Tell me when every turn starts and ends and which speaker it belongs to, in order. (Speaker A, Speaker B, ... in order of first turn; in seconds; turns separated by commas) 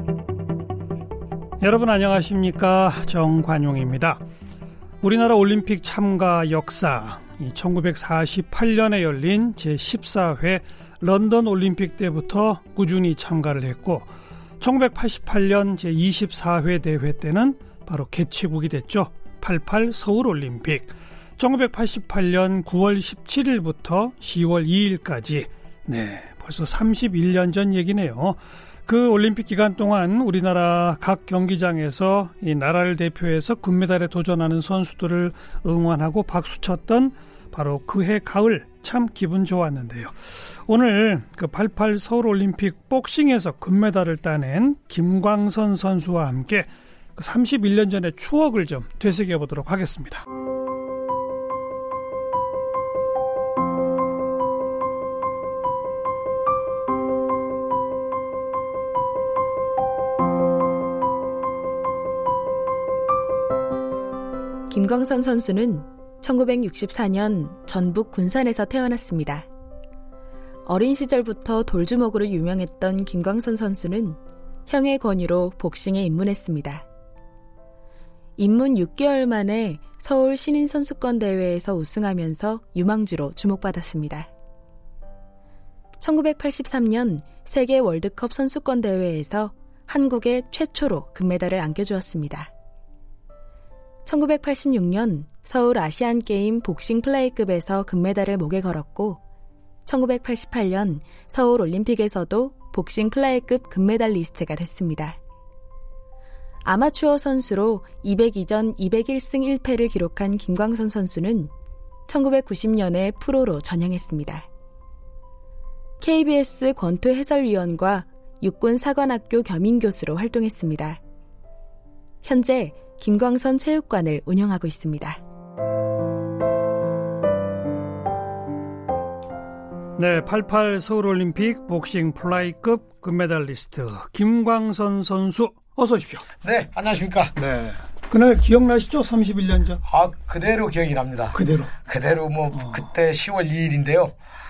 Speaker A: 1.6-4.2, Speaker A: 5.0-14.1, Speaker A: 14.6-40.1, Speaker A: 40.7-50.2, Speaker B: 64.7-69.5, Speaker B: 70.7-76.8, Speaker B: 78.4-84.3, Speaker B: 86.0-92.5, Speaker B: 94.0-99.2, Speaker B: 99.9-105.2, Speaker B: 106.6-111.5, Speaker B: 112.1-114.5, Speaker B: 116.0-121.0, Speaker B: 122.2-125.2, Speaker A: 130.0-136.3, Speaker C: 136.4-137.4, Speaker A: 137.4-139.8, Speaker C: 139.9-144.2, Speaker A: 141.3-141.7, Speaker A: 142.6-142.8